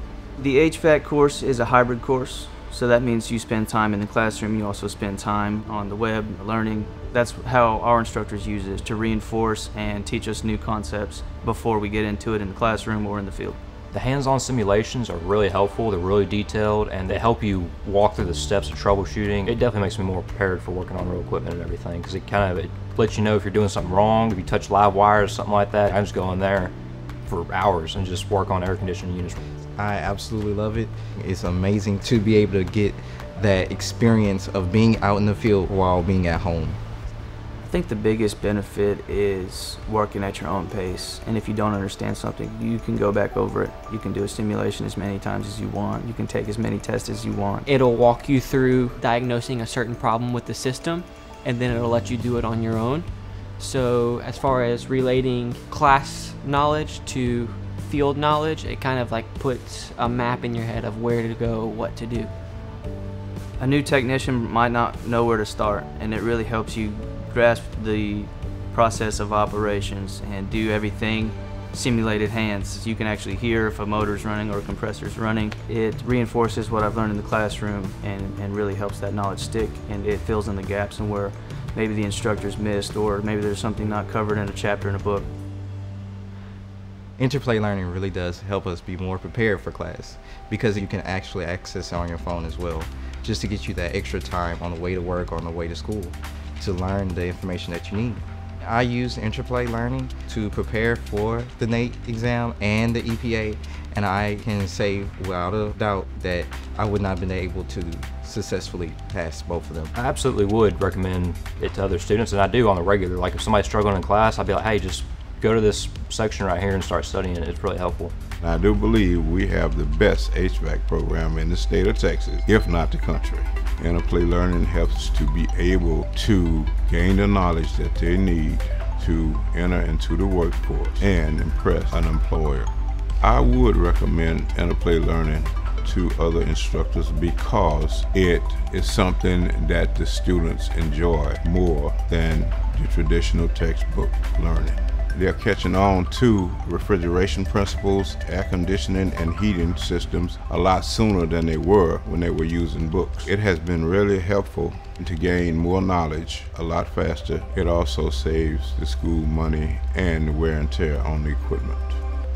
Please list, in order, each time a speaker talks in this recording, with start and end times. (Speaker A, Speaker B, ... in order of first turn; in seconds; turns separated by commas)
Speaker A: 0.4-13.6, Speaker B: 13.9-26.7, Speaker B: 27.3-29.4, Speaker C: 29.8-36.8, Speaker A: 37.6-47.7, Speaker D: 47.7-62.3, Speaker A: 63.6-85.3, Speaker C: 87.2-109.9, Speaker B: 110.0-118.1, Speaker E: 118.4-162.0